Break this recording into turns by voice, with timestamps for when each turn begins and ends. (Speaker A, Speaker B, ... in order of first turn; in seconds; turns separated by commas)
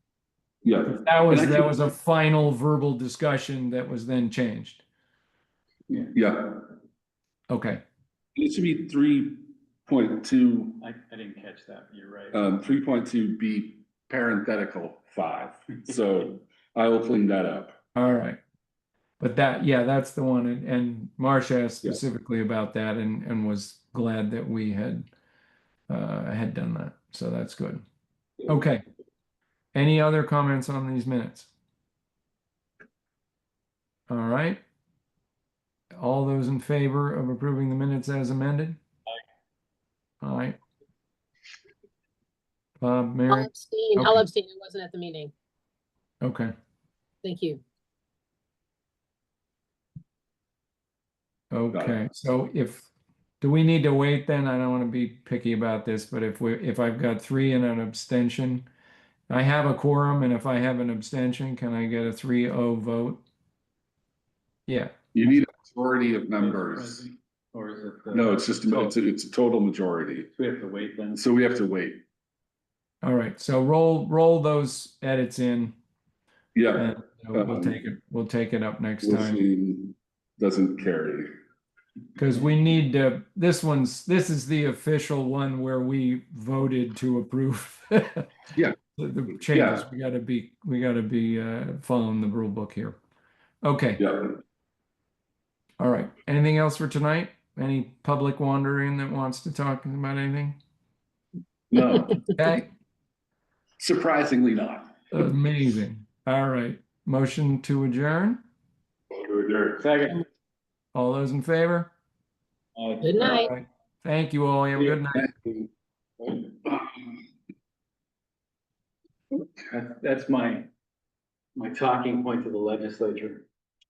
Speaker A: 0.6-1.8, Speaker B: 0.8-4.8, Speaker A: 5.9-6.7, Speaker B: 7.5-7.8, Speaker A: 8.3-10.8, Speaker C: 10.8-12.4, Speaker A: 12.3-17.8, Speaker B: 17.9-18.4, Speaker B: 19.2-25.1, Speaker B: 25.9-27.8, Speaker B: 28.5-28.8, Speaker B: 29.7-31.5, Speaker B: 34.1-34.6, Speaker B: 36.0-38.8, Speaker B: 40.2-40.6, Speaker B: 42.8-44.2, Speaker D: 43.3-45.3, Speaker B: 46.2-46.5, Speaker D: 47.2-47.6, Speaker B: 51.5-52.9, Speaker A: 51.7-52.0, Speaker B: 53.4-58.6, Speaker B: 59.3-63.2, Speaker B: 64.7-65.0, Speaker A: 65.1-67.0, Speaker C: 66.4-68.9, Speaker A: 68.1-70.3, Speaker C: 70.3-71.2, Speaker A: 71.1-72.0, Speaker B: 73.0-75.8, Speaker A: 76.5-77.8, Speaker B: 76.8-79.4, Speaker A: 79.0-81.3, Speaker B: 82.2-88.3, Speaker B: 88.9-93.0, Speaker A: 89.5-89.9, Speaker B: 93.6-94.1, Speaker A: 94.0-94.4, Speaker B: 95.8-100.6, Speaker A: 101.7-102.2, Speaker B: 102.4-102.7, Speaker A: 103.8-105.0, Speaker B: 105.1-108.4, Speaker A: 109.1-109.9, Speaker C: 109.8-110.2, Speaker B: 110.9-111.9, Speaker C: 112.8-113.3, Speaker D: 113.0-113.5, Speaker B: 113.2-115.3, Speaker A: 114.9-115.6, Speaker A: 116.2-116.7, Speaker C: 119.7-120.7, Speaker C: 121.5-123.4